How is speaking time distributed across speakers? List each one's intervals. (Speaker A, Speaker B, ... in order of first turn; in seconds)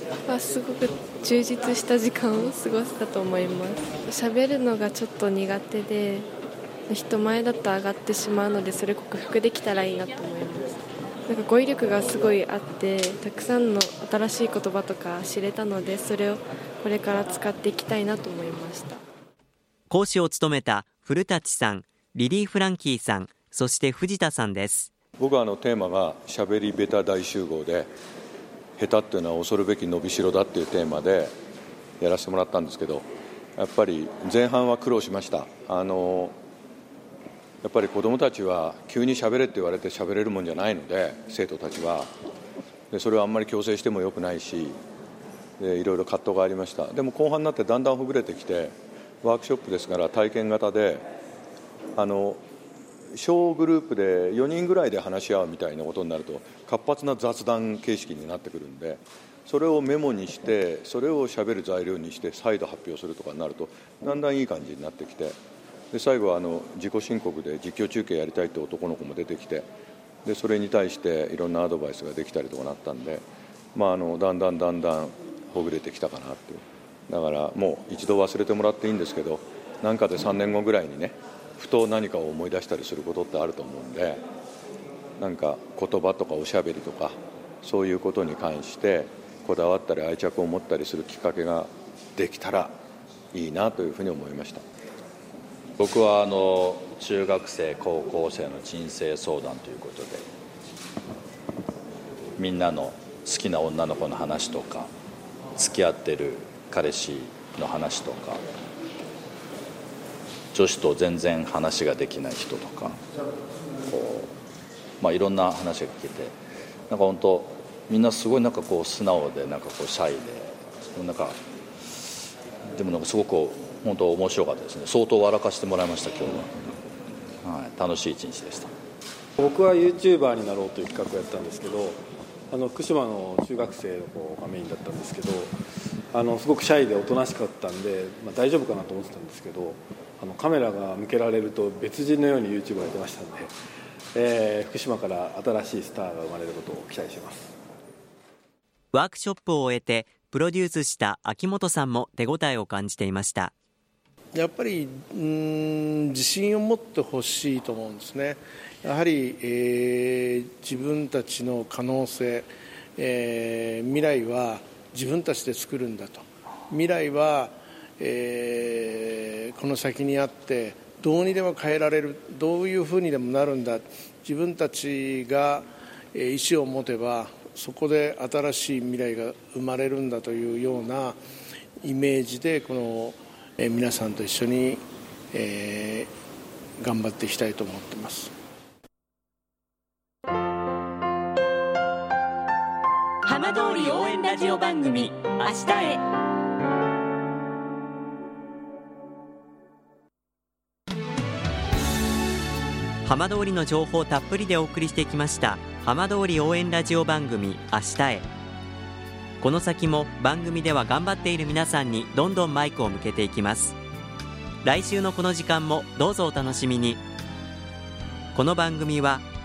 Speaker A: 0.3-6.3, 6.9-10.8, 11.3-19.0
Speaker B: 19.9-24.9, 148.9-153.5, 203.0-208.2, 209.4-213.8, 214.6-217.0, 218.3-219.2
Speaker C: 25.2-27.9, 28.8-31.3, 32.0-36.3, 37.6-42.1, 42.9-44.8, 45.6-51.0, 52.0-52.4, 53.1-65.4, 65.9-69.7, 70.2-84.2, 85.2-92.7, 93.3-94.6
Speaker D: 95.8-100.2, 102.4-104.9, 105.5-108.4, 110.5-113.0, 113.9-114.3, 115.0-116.3, 116.9-121.4, 122.7-126.8, 127.4-128.7
Speaker E: 129.4-132.0, 132.5-135.5, 136.1-143.5, 144.1-147.5
Speaker F: 154.3-181.2, 181.8-186.1, 186.8-188.3
Speaker G: 193.2-196.0